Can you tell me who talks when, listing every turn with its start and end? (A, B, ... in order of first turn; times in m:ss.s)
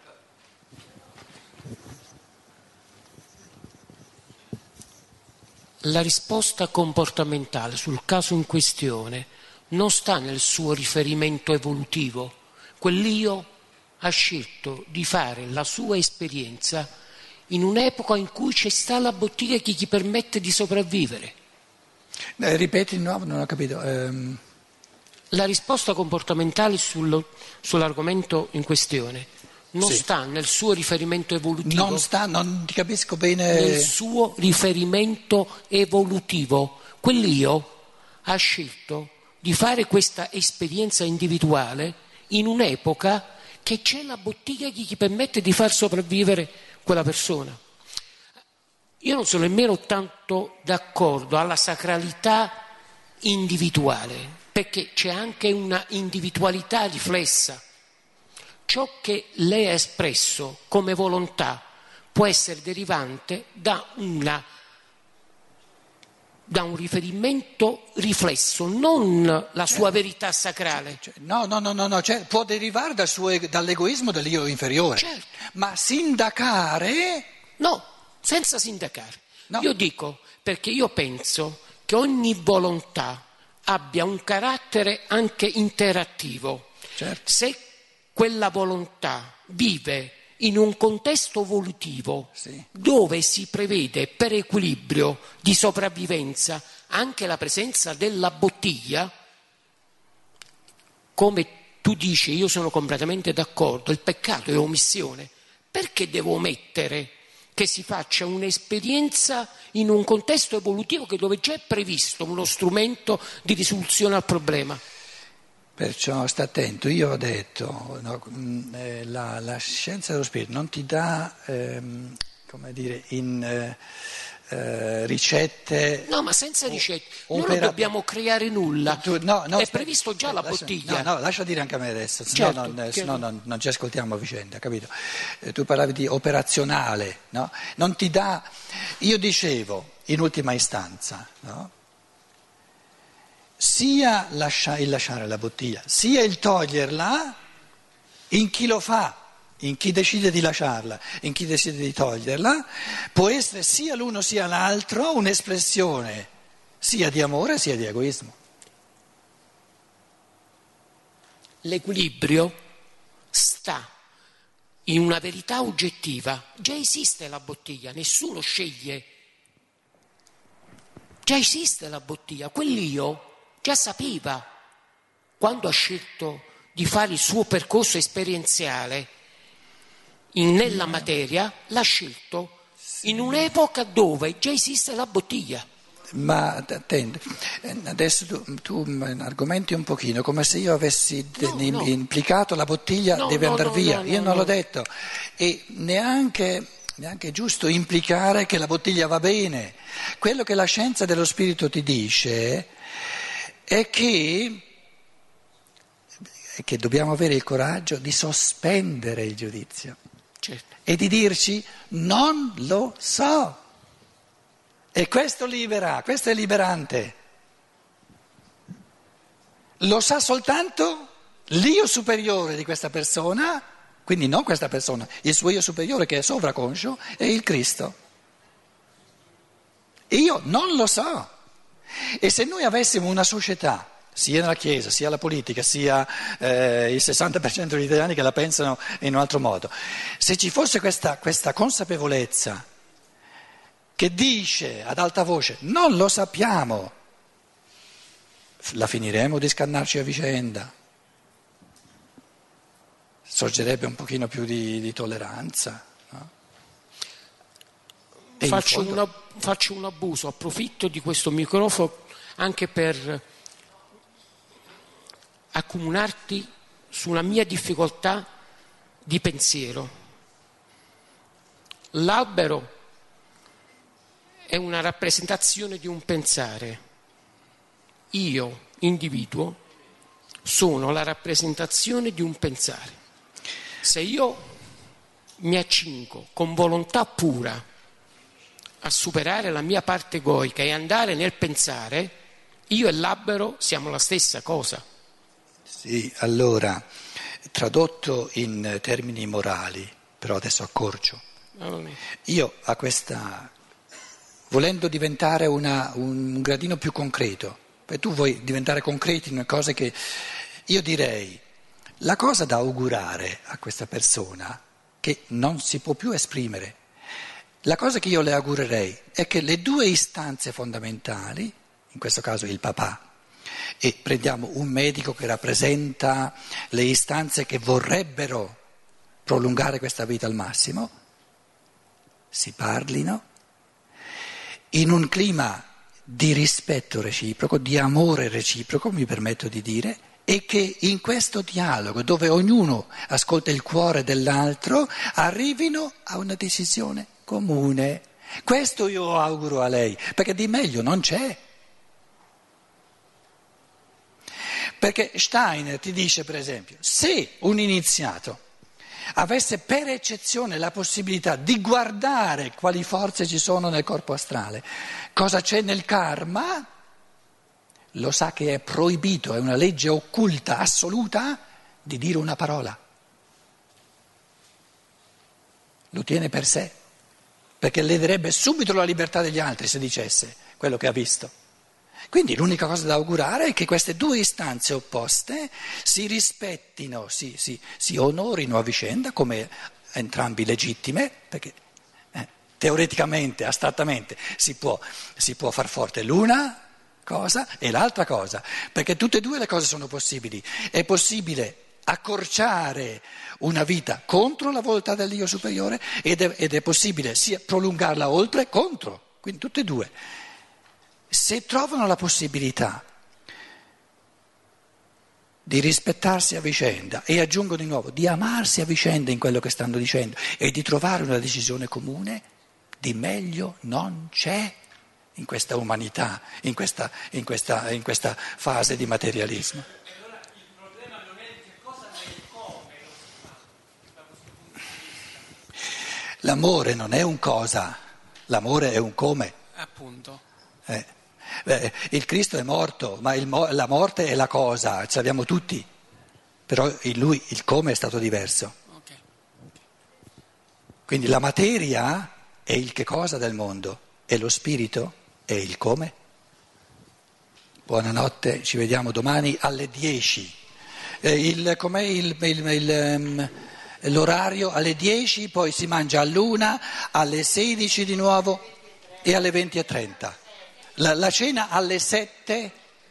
0:05.8-0:13.5 A
0:14.0-0:16.9 A
0:17.5-0:21.4 A
0:22.4-0:24.4 B
0:25.3-0:32.1 A
0:31.6-0:33.9 B
0:33.5-0:47.6 A
0:49.0-0:52.6 A
0:53.2-0:57.6 A
0:58.7-1:04.4 A
1:06.5-1:11.0 A
1:10.9-1:17.3 B
1:15.0-1:15.3 A
1:17.6-1:26.7 A
1:27.0-1:27.2 B
1:27.2-1:39.1 A
1:32.4-1:32.7 B
1:41.2-1:54.8 A
1:55.8-2:03.8 B
2:04.5-2:06.1 B
2:06.1-2:11.1 A
2:06.7-2:07.9 B
2:08.9-2:21.7 B
2:12.3-2:13.2 A
2:23.6-2:27.4 B
2:28.3-2:36.3 B
2:36.8-2:38.4 B
2:41.6-2:42.6 A
2:43.3-2:43.9 A
2:44.9-2:49.1 A
2:51.2-2:54.5 A
2:55.4-2:59.1 A
3:00.3-3:05.7 A
3:03.0-3:03.4 B
3:06.1-3:22.7 B
3:11.4-3:11.9 A
3:13.1-3:14.6 A
3:23.7-3:24.7 B
3:26.6-3:30.0 B
3:30.9-3:33.6 B
3:34.9-3:37.2 B
3:39.8-3:48.0 B
3:50.1-3:51.3 B
3:52.1-4:02.6 B
4:04.0-4:06.9 B
4:08.6-4:10.7 B
4:13.3-4:16.3 B
4:18.4-4:23.2 A
4:18.4-4:19.0 B
4:25.5-4:28.3 A
4:29.0-4:29.9 A
4:31.9-4:32.7 A
4:34.5-4:36.8 A
4:38.1-4:39.6 A
4:40.4-4:43.0 A
4:43.8-4:44.6 A
4:45.4-4:47.6 A
4:48.8-4:52.2 A
4:52.7-4:54.8 A
4:55.8-4:56.8 B
4:57.5-5:01.2 B
5:01.6-5:02.0 A
5:02.3-5:03.5 B
5:04.5-5:11.4 B
5:12.0-5:16.8 B
5:17.6-5:23.1 B
5:23.8-5:28.6 B
5:29.3-5:30.9 B
5:32.3-5:33.2 B
5:34.7-5:51.4 B
5:54.8-5:58.4 B
5:59.2-6:06.7 B
6:07.9-6:12.8 B
6:15.9-6:16.8 B
6:17.6-6:21.3 B
6:22.1-6:31.6 B
6:32.1-6:50.0 B
6:51.1-6:52.8 B
6:55.5-7:02.3 B
7:02.8-7:04.6 B
7:05.2-7:09.7 B
7:10.1-7:15.2 C
7:16.2-7:19.4 B
7:19.5-7:20.2 C
7:21.4-7:25.7 B
7:26.5-7:28.6 B
7:28.7-7:29.0 C
7:30.9-7:36.0 B
7:37.7-7:40.4 B
7:41.0-7:48.4 B
7:49.0-7:50.2 B
7:50.8-7:52.6 B